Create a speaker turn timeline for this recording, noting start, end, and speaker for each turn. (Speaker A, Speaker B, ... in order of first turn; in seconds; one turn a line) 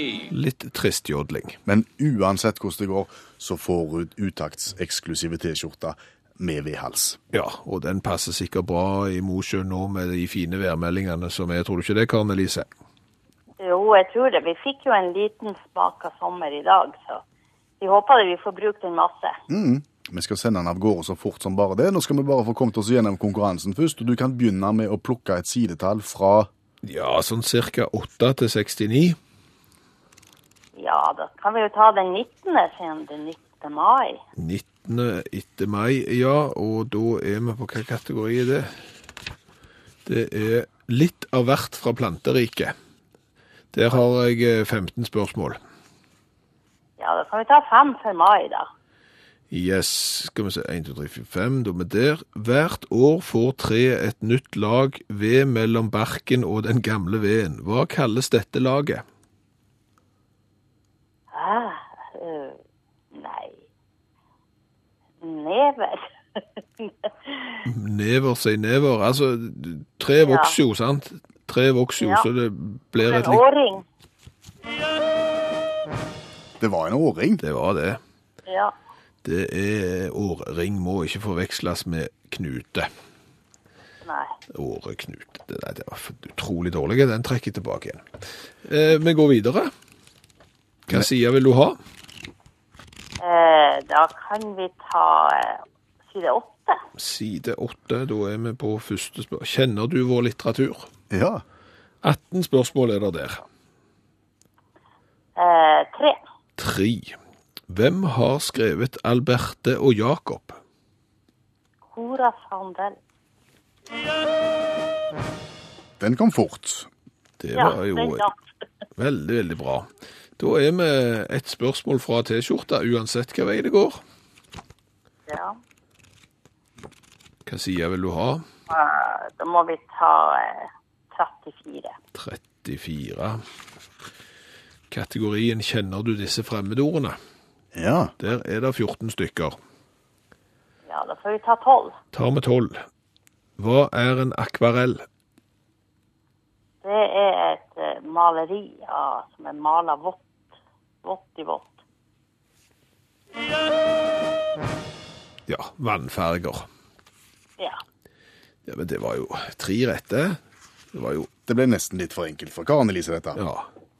Speaker A: 0.3-1.6
Speaker B: 1.7-7.2
Speaker A: 7.3-12.7
Speaker C: 13.6-17.2
Speaker C: 17.8-19.4
Speaker B: 19.5-26.5
Speaker A: 26.8-29.2
Speaker C: 30.8-34.2
Speaker A: 34.4-38.8
Speaker A: 40.0-42.8
Speaker A: 43.7-45.6
Speaker C: 47.0-48.7
Speaker A: 49.5-59.0
Speaker C: 61.3-62.6
Speaker C: 63.1-63.6
Speaker C: 65.2-67.6
Speaker A: 67.7-73.4
Speaker C: 70.2-70.6
Speaker C: 72.0-72.3
Speaker C: 73.0-73.8
Speaker B: 76.6-77.4
Speaker A: 77.4-78.0
Speaker C: 78.5-78.7
Speaker A: 79.2-82.9
Speaker C: 84.0-84.3
Speaker A: 84.5-89.7
Speaker A: 90.9-91.8
Speaker C: 93.2-96.8
Speaker A: 97.0-100.9
Speaker B: 101.1-101.4
Speaker A: 102.0-103.5
Speaker C: 105.4-106.2
Speaker A: 106.6-107.2
Speaker A: 107.7-110.6
Speaker C: 111.9-113.0
Speaker B: 116.0-116.9
Speaker A: 117.4-118.3
Speaker C: 117.6-118.3
Speaker A: 119.0-124.0
Speaker C: 125.3-125.6
Speaker A: 127.5-128.5
Speaker C: 128.7-132.0
Speaker A: 132.1-133.4
Speaker A: 134.9-137.2
Speaker B: 137.7-138.1
Speaker A: 138.2-139.6
Speaker C: 140.9-142.0
Speaker A: 142.1-142.9
Speaker A: 143.6-145.1
Speaker C: 146.8-150.2
Speaker C: 151.0-151.7
Speaker A: 155.5-156.7
Speaker A: 158.7-160.4
Speaker A: 160.9-161.3
Speaker B: 161.5-163.4
Speaker A: 163.3-163.7